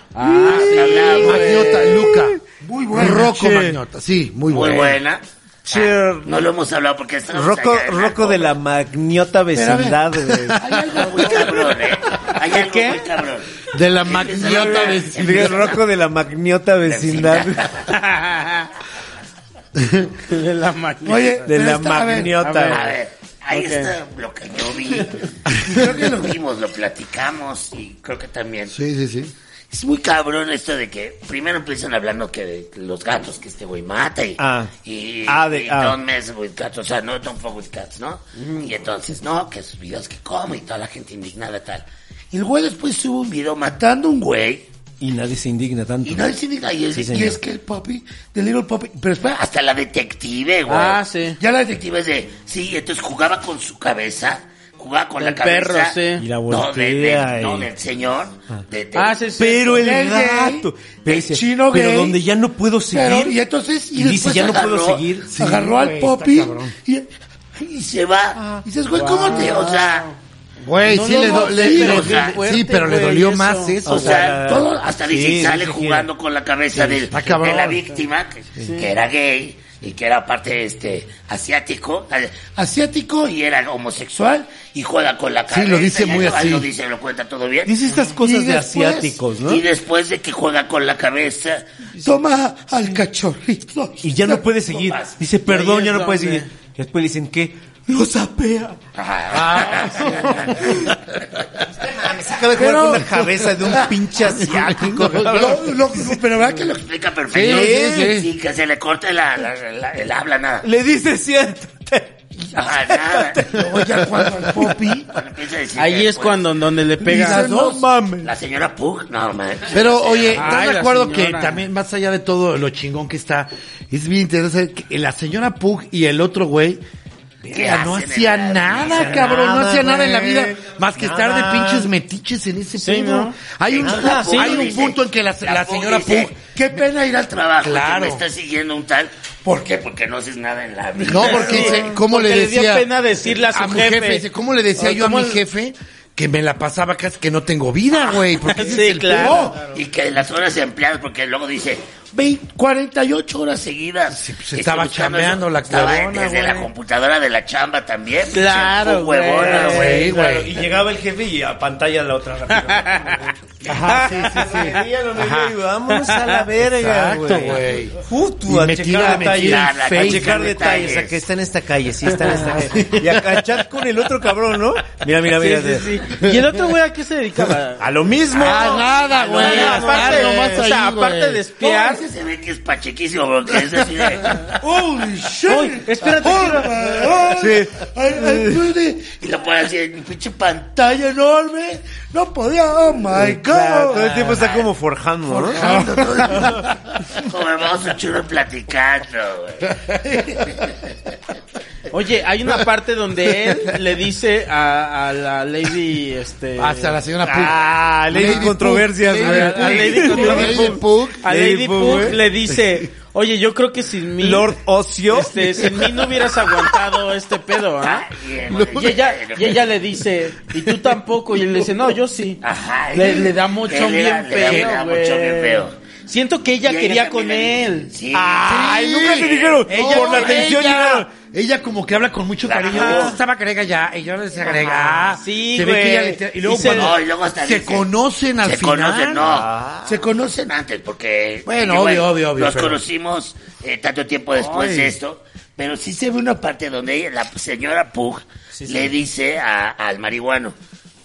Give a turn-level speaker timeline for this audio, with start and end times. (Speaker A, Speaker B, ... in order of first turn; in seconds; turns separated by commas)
Speaker A: 0.1-2.1, Speaker B: 0.2-1.2, Speaker C: 0.5-1.7, Speaker D: 1.1-5.0, Speaker B: 1.7-2.4, Speaker B: 3.0-3.8, Speaker C: 4.5-8.5, Speaker B: 5.7-6.4, Speaker B: 7.3-10.6, Speaker D: 9.5-12.4, Speaker C: 10.9-15.8, Speaker A: 12.5-13.1, Speaker D: 13.7-15.6, Speaker B: 14.4-17.7, Speaker C: 16.8-17.9, Speaker A: 17.9-18.7, Speaker D: 19.8-20.1, Speaker A: 20.2-21.5, Speaker D: 21.0-22.4, Speaker B: 21.4-22.9, Speaker A: 22.4-22.9, Speaker C: 22.7-28.8, Speaker A: 23.5-23.9, Speaker D: 25.5-26.4, Speaker D: 28.7-29.3, Speaker C: 29.7-44.6, Speaker B: 34.4-34.7, Speaker B: 35.2-36.0, Speaker A: 38.4-38.7, Speaker B: 45.0-46.3, Speaker C: 46.0-59.2, Speaker B: 46.9-47.4, Speaker A: 50.7-51.4, Speaker A: 55.2-56.2, Speaker B: 56.2-57.7, Speaker A: 58.9-59.8, Speaker B: 59.4-63.4, Speaker D: 59.7-62.2, Speaker D: 62.9-64.3, Speaker B: 63.9-66.0, Speaker C: 64.0-66.3, Speaker D: 65.3-67.0, Speaker C: 67.5-70.1, Speaker B: 68.3-68.6, Speaker D: 68.6-69.7, Speaker A: 68.9-70.2, Speaker D: 70.6-74.3, Speaker A: 70.8-73.8, Speaker C: 71.0-72.4, Speaker B: 73.8-76.1, Speaker C: 73.8-87.7, Speaker D: 77.1-77.9, Speaker A: 78.6-78.9, Speaker D: 85.5-86.7, Speaker B: 87.7-89.6, Speaker D: 88.0-89.1, Speaker C: 89.4-91.7, Speaker D: 92.0-94.4, Speaker B: 94.0-98.8, Speaker C: 94.6-95.2, Speaker A: 95.5-96.5, Speaker C: 99.0-100.8, Speaker D: 99.3-101.0, Speaker B: 101.8-106.0, Speaker D: 102.4-106.7, Speaker C: 106.0-110.7, Speaker D: 107.3-108.3, Speaker B: 107.3-108.2, Speaker B: 110.6-114.8, Speaker C: 112.5-113.6, Speaker D: 113.5-115.1, Speaker C: 115.1-116.6, Speaker A: 115.8-117.4, Speaker D: 117.0-118.3, Speaker C: 117.1-120.6, Speaker D: 119.7-126.8, Speaker A: 120.3-121.6, Speaker D: 127.4-138.2, Speaker C: 127.5-129.4, Speaker B: 128.8-131.9, Speaker A: 132.8-133.3, Speaker C: 133.7-141.9, Speaker B: 133.8-134.6, Speaker A: 134.3-134.6, Speaker D: 141.0-142.9, Speaker A: 141.1-144.2, Speaker D: 143.5-149.7, Speaker A: 144.8-145.4, Speaker C: 147.9-148.3, Speaker A: 148.4-149.5, Speaker C: 149.2-160.1, Speaker D: 154.1-156.7, Speaker A: 158.3-160.0, Speaker B: 159.4-176.0, Speaker D: 159.6-160.5, Speaker A: 162.5-163.2, Speaker D: 163.7-165.6, Speaker A: 163.9-164.7, Speaker A: 165.9-166.4, Speaker D: 166.6-170.4, Speaker C: 169.1-171.2, Speaker D: 172.3-173.4, Speaker A: 175.3-177.9, Speaker B: 177.8-180.6, Speaker D: 178.3-181.4, Speaker A: 179.3-182.0, Speaker C: 179.4-179.9, Speaker C: 181.6-184.5, Speaker D: 184.2-189.2, Speaker A: 185.5-186.8, Speaker B: 187.2-188.7, Speaker C: 189.1-191.1, Speaker D: 190.9-194.4, Speaker B: 193.1-195.7, Speaker C: 194.1-194.7, Speaker D: 195.3-196.8, Speaker C: 195.4-200.7, Speaker D: 199.7-200.7, Speaker A: 201.9-207.0, Speaker D: 206.6-211.2, Speaker B: 207.2-212.3, Speaker A: 209.1-214.6, Speaker B: 214.2-216.0, Speaker A: 215.1-218.1, Speaker C: 217.8-219.7, Speaker A: 218.7-222.4, Speaker C: 222.4-225.8, Speaker A: 222.9-227.9, Speaker C: 226.6-229.3, Speaker B: 228.1-231.1, Speaker D: 228.4-239.3, Speaker C: 230.0-230.3, Speaker C: 232.4-233.2, Speaker A: 232.7-233.2, Speaker A: 234.5-237.0, Speaker C: 236.6-237.9, Speaker C: 238.4-250.5, Speaker B: 239.2-240.0, Speaker D: 241.4-242.8, Speaker D: 244.5-244.8, Speaker B: 244.6-244.9, Speaker B: 248.5-248.9